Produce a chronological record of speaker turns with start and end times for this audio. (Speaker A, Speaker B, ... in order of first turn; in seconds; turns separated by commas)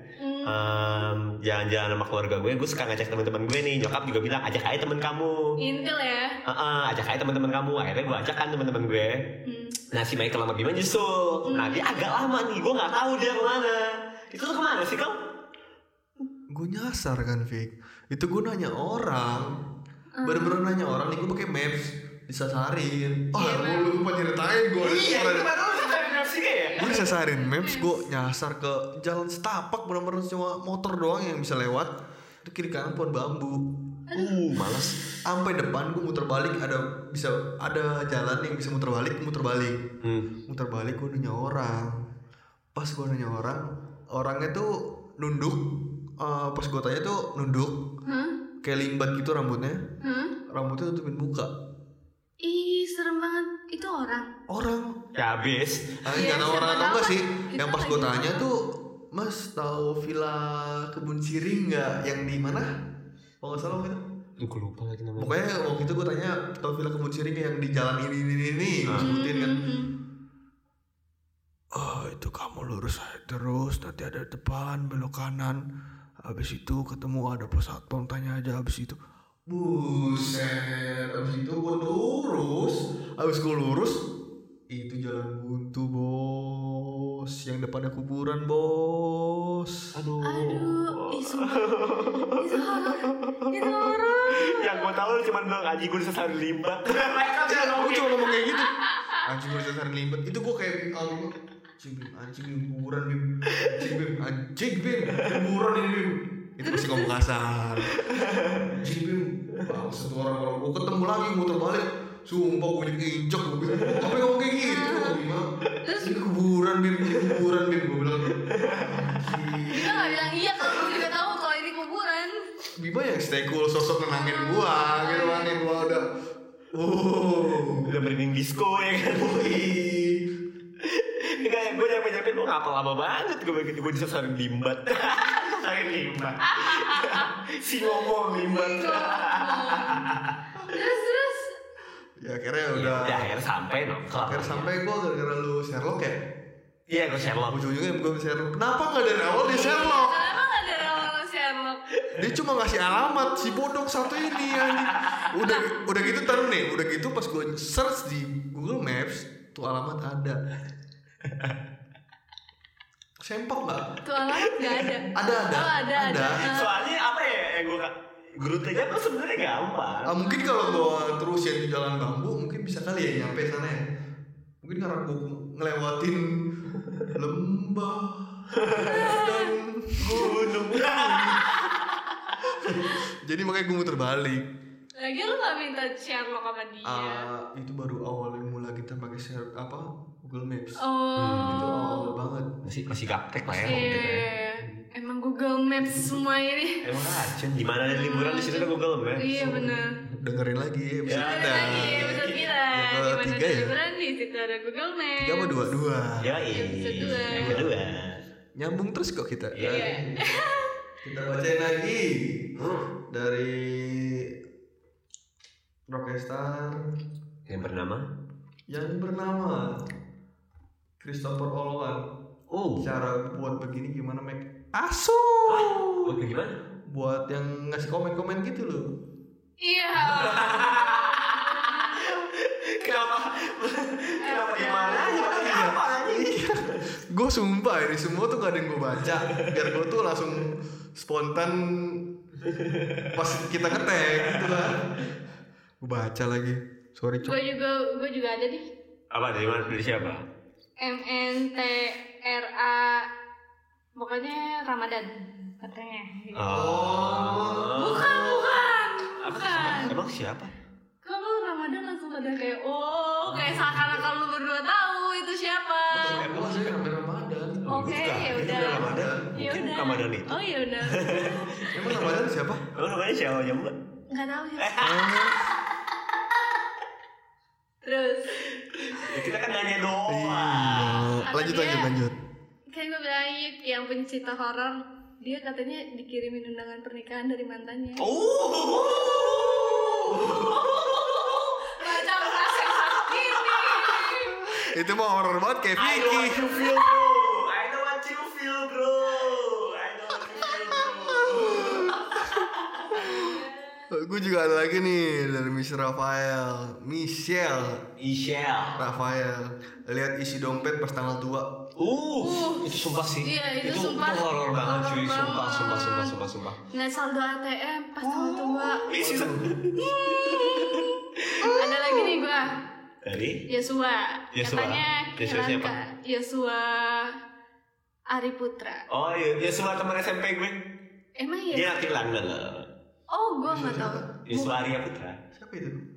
Speaker A: 0.2-1.1, Speaker B: 0.5-5.5, Speaker A: 5.6-6.3, Speaker B: 6.5-9.2, Speaker A: 9.4-9.8, Speaker B: 9.9-15.2, Speaker A: 11.5-12.0, Speaker C: 16.5-19.5, Speaker A: 20.1-20.6, Speaker C: 20.2-25.6, Speaker A: 23.4-24.0, Speaker B: 24.8-26.9, Speaker A: 26.7-28.0, Speaker C: 26.8-33.7, Speaker A: 34.1-34.4, Speaker B: 34.1-35.0, Speaker C: 35.2-39.9, Speaker B: 40.0-40.3, Speaker C: 40.5-42.1, Speaker C: 42.7-47.9, Speaker A: 48.0-48.3, Speaker C: 48.6-49.8, Speaker A: 50.0-50.3, Speaker C: 50.5-51.5, Speaker A: 52.4-54.3, Speaker C: 54.5-55.0, Speaker B: 55.1-56.1, Speaker C: 56.0-62.7, Speaker A: 56.1-58.4, Speaker C: 63.4-64.0, Speaker B: 64.4-65.4, Speaker C: 65.2-69.6, Speaker B: 68.9-69.1, Speaker A: 69.0-69.9, Speaker C: 71.7-75.6, Speaker C: 76.2-84.0, Speaker C: 84.7-89.9, Speaker B: 89.9-98.3, Speaker A: 90.2-94.8, Speaker C: 97.4-108.0, Speaker A: 98.8-99.2, Speaker A: 106.6-107.0, Speaker B: 108.0-108.7, Speaker C: 108.7-115.5, Speaker B: 113.8-114.1, Speaker A: 114.6-115.2, Speaker A: 115.8-116.1, Speaker C: 116.0-121.1, Speaker B: 117.1-117.4, Speaker B: 118.5-119.3, Speaker A: 119.7-122.3, Speaker C: 122.8-126.1, Speaker A: 124.1-126.0, Speaker C: 126.7-127.9, Speaker B: 127.8-129.6, Speaker C: 129.1-130.2, Speaker B: 130.8-140.3, Speaker A: 136.4-137.3, Speaker A: 137.8-140.1, Speaker A: 140.7-141.6, Speaker C: 142.2-143.3, Speaker B: 142.7-144.7, Speaker C: 144.1-146.3, Speaker B: 146.9-147.6, Speaker C: 147.5-150.3, Speaker A: 149.3-151.8, Speaker C: 152.2-160.4, Speaker B: 154.6-155.3, Speaker B: 161.3-161.6, Speaker C: 163.2-163.8, Speaker A: 164.0-166.8, Speaker C: 165.1-166.6, Speaker B: 166.4-170.1, Speaker C: 170.1-173.8, Speaker A: 170.2-170.9, Speaker C: 174.6-181.5, Speaker B: 178.5-179.2, Speaker A: 178.8-179.5, Speaker B: 180.0-182.0, Speaker C: 182.4-184.4, Speaker A: 185.0-187.3, Speaker C: 186.8-190.8, Speaker A: 190.8-192.1, Speaker B: 191.2-191.7, Speaker C: 191.4-192.6, Speaker B: 192.6-194.3, Speaker A: 193.6-196.8, Speaker B: 196.8-199.4, Speaker A: 197.9-199.8, Speaker C: 199.3-203.7, Speaker B: 201.1-202.4, Speaker A: 201.1-205.6, Speaker C: 205.2-206.4, Speaker B: 206.2-208.2, Speaker A: 206.5-207.6, Speaker C: 207.0-207.9, Speaker C: 208.6-210.3, Speaker B: 209.5-209.9, Speaker A: 209.6-210.7, Speaker C: 211.0-214.3, Speaker B: 212.6-212.9, Speaker C: 215.9-216.8, Speaker B: 217.5-218.1, Speaker C: 218.7-219.8, Speaker C: 221.0-222.1, Speaker B: 222.5-222.9, Speaker C: 222.8-226.2, Speaker B: 225.5-226.6, Speaker C: 226.9-228.9, Speaker A: 229.6-232.1, Speaker B: 230.0-236.8, Speaker A: 234.2-235.4, Speaker C: 235.1-242.1, Speaker B: 239.1-239.7, Speaker B: 242.4-244.8, Speaker C: 243.1-245.0, Speaker C: 245.8-247.4, Speaker A: 247.2-248.6, Speaker B: 249.1-250.2, Speaker A: 250.8-253.1, Speaker A: 254.0-256.4, Speaker B: 256.3-258.3, Speaker C: 256.5-258.6, Speaker A: 257.8-259.9, Speaker B: 259.2-260.5, Speaker C: 259.6-259.9, Speaker A: 261.0-266.3, Speaker B: 263.3-263.9, Speaker C: 263.4-263.8, Speaker B: 265.9-266.8, Speaker C: 265.9-269.5, Speaker B: 267.6-272.2, Speaker A: 267.7-271.7, Speaker C: 271.7-272.6, Speaker B: 272.7-273.7, Speaker A: 274.1-274.8, Speaker B: 274.6-275.4, Speaker C: 274.8-275.5, Speaker A: 277.8-278.3, Speaker B: 278.6-281.2, Speaker C: 280.1-282.1, Speaker A: 281.3-281.9, Speaker A: 282.7-288.1, Speaker B: 288.0-294.2, Speaker C: 290.1-290.7, Speaker A: 290.7-294.4, Speaker C: 294.4-296.6, Speaker B: 295.8-303.0, Speaker A: 300.3-301.6, Speaker C: 300.7-303.4, Speaker A: 303.0-303.8, Speaker C: 303.9-307.8, Speaker B: 308.0-308.9, Speaker C: 308.8-311.6, Speaker B: 311.8-316.6, Speaker A: 312.2-316.1, Speaker A: 316.7-318.9, Speaker B: 318.1-321.5, Speaker C: 318.2-319.6, Speaker A: 319.7-322.5, Speaker C: 321.4-322.3, Speaker B: 323.0-323.4, Speaker A: 323.5-327.1, Speaker B: 324.3-325.8, Speaker A: 328.1-328.8, Speaker B: 328.9-330.6, Speaker A: 331.2-331.9, Speaker B: 331.5-332.7, Speaker A: 333.1-334.5, Speaker C: 333.4-334.2, Speaker B: 334.3-335.2, Speaker C: 335.3-335.8